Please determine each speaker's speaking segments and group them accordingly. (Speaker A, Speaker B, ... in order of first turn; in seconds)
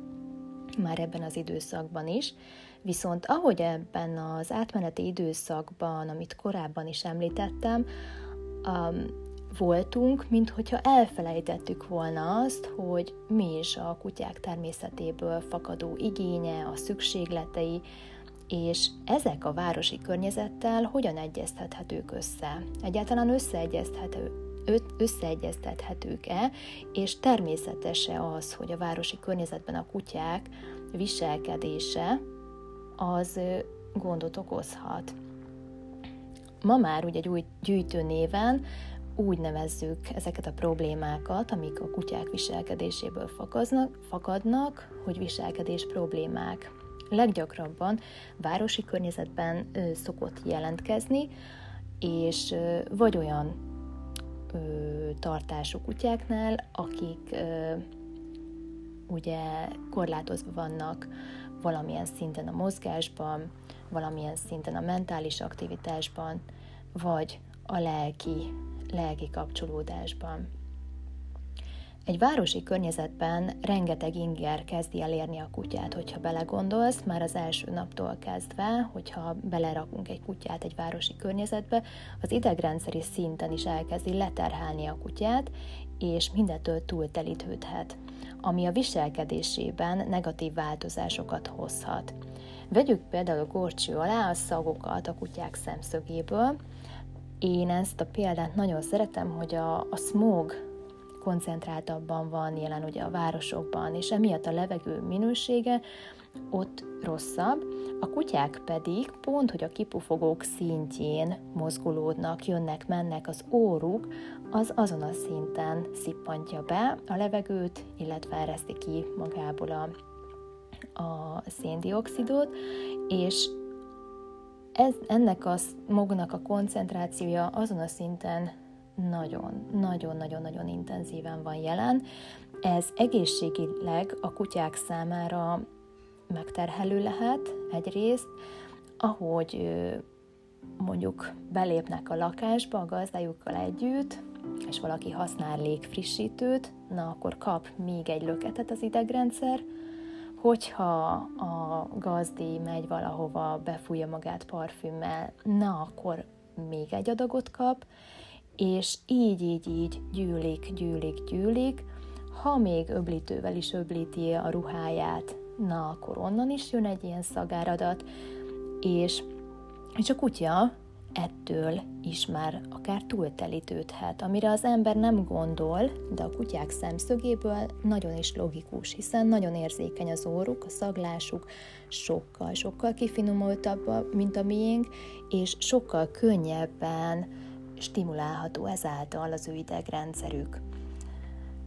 Speaker A: 0.8-7.8, 8.6-17.8, 18.5-32.2, 33.0-35.1, 36.6-38.6, 39.1-51.3, 52.0-53.6, 54.5-57.8, 59.1-66.4, 66.9-70.5, 72.1-92.1, 92.7-96.5, 97.4-100.6, 101.2-105.8, 106.5-119.9, 121.0-122.5, 123.1-123.5, 124.7-132.0, 132.6-135.6, 136.3-138.3, 139.0-140.0, 140.8-149.6, 150.4-157.8, 158.6-168.1, 168.8-169.3, 170.0-190.6